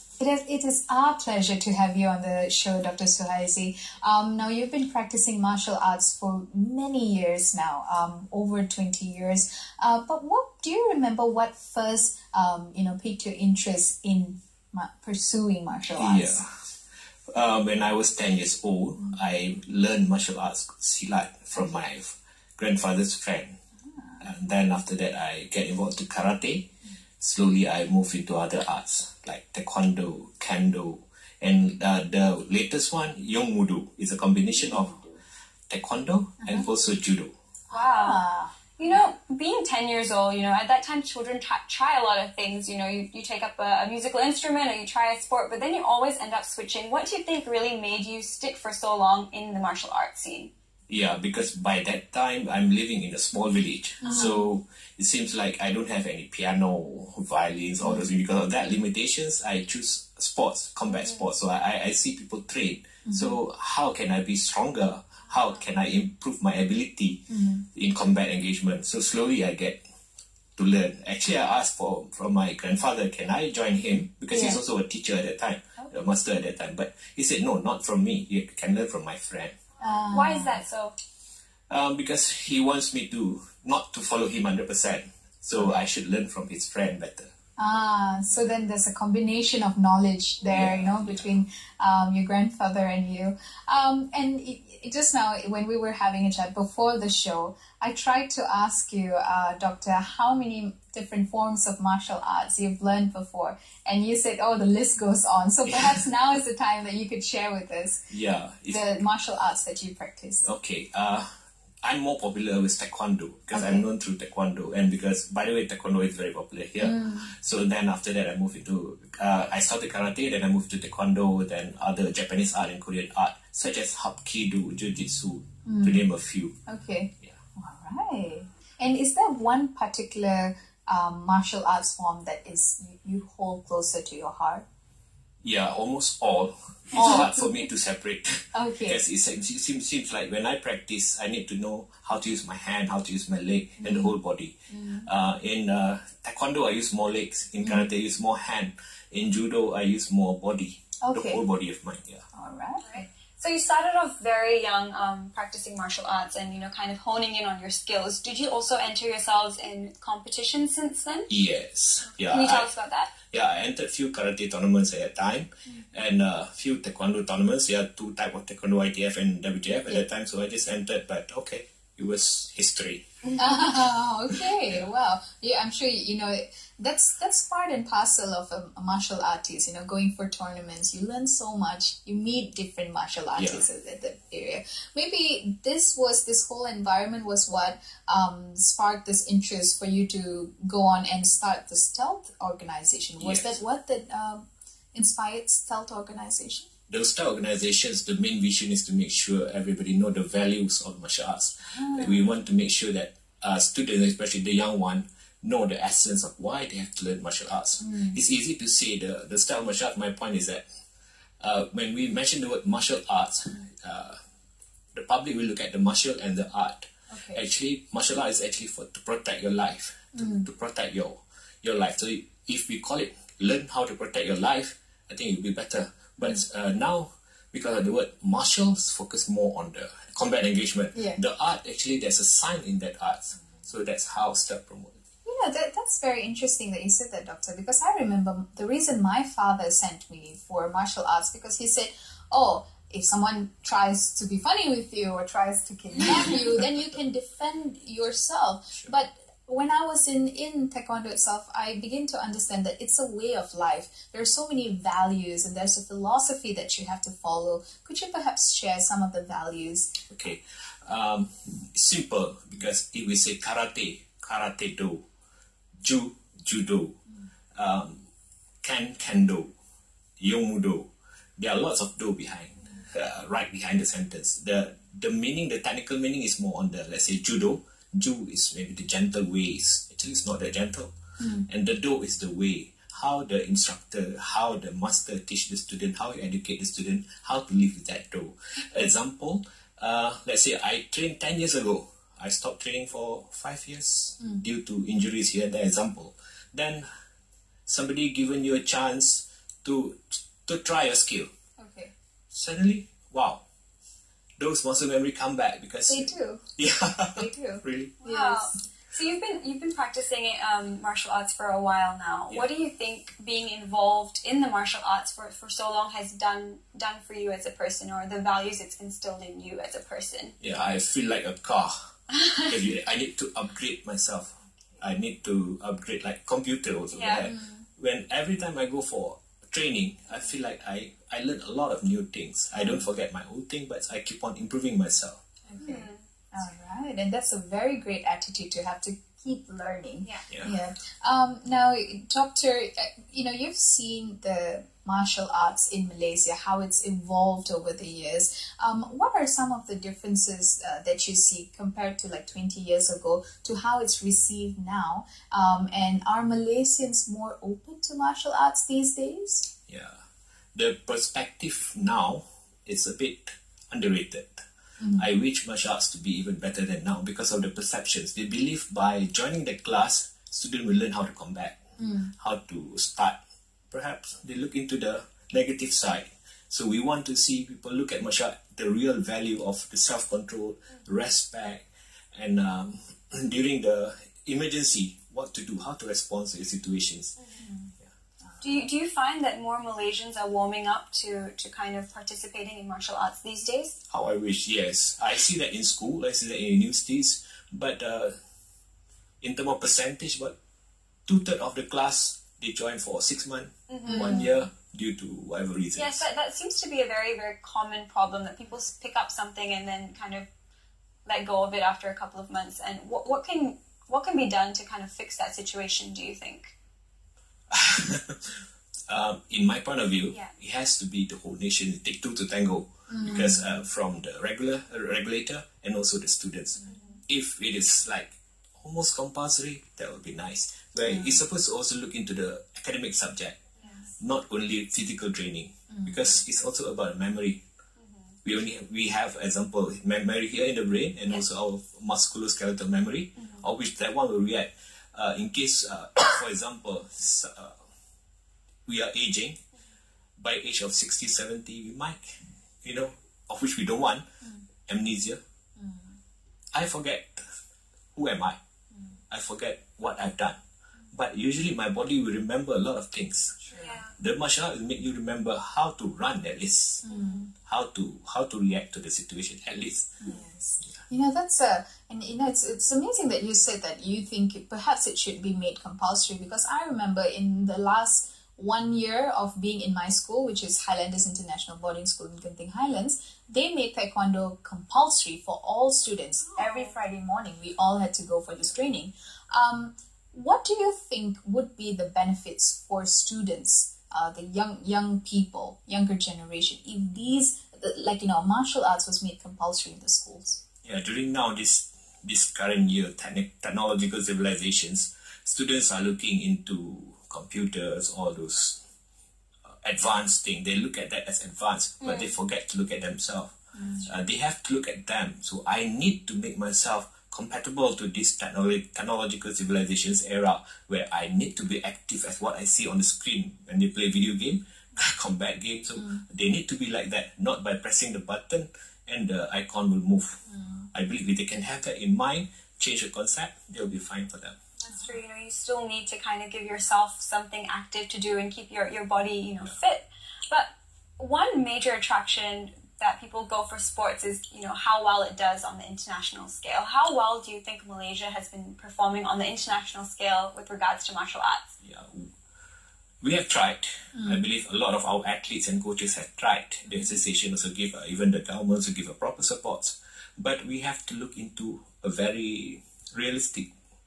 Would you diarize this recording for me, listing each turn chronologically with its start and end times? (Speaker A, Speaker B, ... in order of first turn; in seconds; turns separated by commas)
Speaker A: 0.2-16.4, Speaker B: 16.0-16.5, Speaker B: 17.3-23.6, Speaker A: 23.8-24.2, Speaker B: 24.2-26.7, Speaker B: 27.2-35.0, Speaker A: 34.6-35.2, Speaker B: 35.7-37.3, Speaker A: 36.4-36.7, Speaker A: 37.7-38.5, Speaker C: 37.7-38.2, Speaker C: 38.8-50.5, Speaker B: 50.9-67.2, Speaker A: 54.0-54.5, Speaker A: 57.8-58.1, Speaker C: 60.9-61.3, Speaker A: 63.0-63.4, Speaker A: 67.3-67.7, Speaker B: 67.7-69.8, Speaker B: 70.6-79.6, Speaker A: 74.3-74.6, Speaker A: 79.8-80.6, Speaker C: 80.1-81.0, Speaker B: 81.7-87.3, Speaker A: 85.6-85.8, Speaker A: 87.6-108.0, Speaker B: 90.5-91.4, Speaker B: 105.7-106.1, Speaker B: 108.1-109.1, Speaker A: 108.7-110.5, Speaker B: 110.4-111.3, Speaker B: 111.8-126.5, Speaker A: 113.5-113.8, Speaker A: 116.8-117.3, Speaker A: 125.7-126.0, Speaker A: 126.7-134.7, Speaker B: 135.4-152.2, Speaker A: 136.9-137.7, Speaker A: 138.5-139.0, Speaker A: 143.8-144.2, Speaker A: 144.7-145.1, Speaker A: 147.6-147.9, Speaker A: 151.0-151.5, Speaker A: 152.3-153.1, Speaker C: 152.8-161.3, Speaker B: 161.3-162.7, Speaker C: 162.0-163.2, Speaker B: 163.2-173.1, Speaker A: 173.4-196.7, Speaker B: 174.6-174.9, Speaker B: 183.3-183.7, Speaker B: 193.2-193.6, Speaker B: 196.9-210.6, Speaker A: 201.7-202.3, Speaker A: 207.8-208.2, Speaker B: 211.4-214.2, Speaker B: 214.9-235.0, Speaker A: 217.1-217.4, Speaker A: 220.1-220.5, Speaker A: 230.9-231.2, Speaker A: 235.2-260.0, Speaker B: 260.1-265.0, Speaker B: 265.8-267.0, Speaker B: 267.6-268.1, Speaker B: 268.6-269.5, Speaker B: 270.2-280.9, Speaker A: 281.2-281.5, Speaker B: 281.5-296.9, Speaker B: 297.7-301.3, Speaker A: 301.6-301.9, Speaker B: 302.3-303.4, Speaker B: 304.4-308.0, Speaker A: 305.9-306.4, Speaker A: 307.1-308.5, Speaker C: 308.0-320.4, Speaker B: 320.4-321.9, Speaker C: 322.2-322.5, Speaker B: 322.4-335.2, Speaker C: 326.9-327.3, Speaker A: 327.2-327.6, Speaker A: 332.6-332.8, Speaker C: 335.5-336.1, Speaker A: 335.5-359.5, Speaker B: 340.3-340.6, Speaker B: 359.7-360.0, Speaker B: 360.6-364.4, Speaker A: 364.8-365.1, Speaker B: 365.0-371.6, Speaker A: 371.8-372.1, Speaker B: 372.2-373.2, Speaker B: 373.7-387.2, Speaker A: 387.4-388.7, Speaker C: 388.4-393.8, Speaker B: 393.9-398.1, Speaker B: 399.2-400.4, Speaker B: 401.1-406.1, Speaker C: 403.7-404.3, Speaker A: 403.9-404.3, Speaker C: 405.7-410.3, Speaker C: 411.1-416.5, Speaker B: 417.5-418.4, Speaker B: 418.9-433.4, Speaker A: 422.9-423.6, Speaker C: 426.7-427.0, Speaker A: 430.8-431.2, Speaker B: 434.0-437.4, Speaker A: 435.7-436.0, Speaker B: 438.2-447.6, Speaker B: 448.7-449.4, Speaker B: 450.2-454.1, Speaker B: 454.7-455.2, Speaker A: 455.6-456.0, Speaker B: 456.5-457.2, Speaker B: 457.9-458.4, Speaker B: 459.1-460.4, Speaker B: 460.9-466.9, Speaker A: 463.4-463.8, Speaker C: 463.6-463.9, Speaker A: 466.8-467.3, Speaker C: 466.9-467.2, Speaker B: 467.4-470.0, Speaker A: 470.0-500.4, Speaker C: 486.4-486.6, Speaker B: 500.6-508.6, Speaker B: 509.6-513.3, Speaker C: 511.8-512.2, Speaker A: 513.5-513.9, Speaker B: 513.9-530.2, Speaker A: 530.3-530.7, Speaker B: 530.7-534.4, Speaker C: 534.6-551.5, Speaker B: 551.6-552.1, Speaker B: 553.0-563.5, Speaker A: 553.9-554.2, Speaker A: 556.7-556.9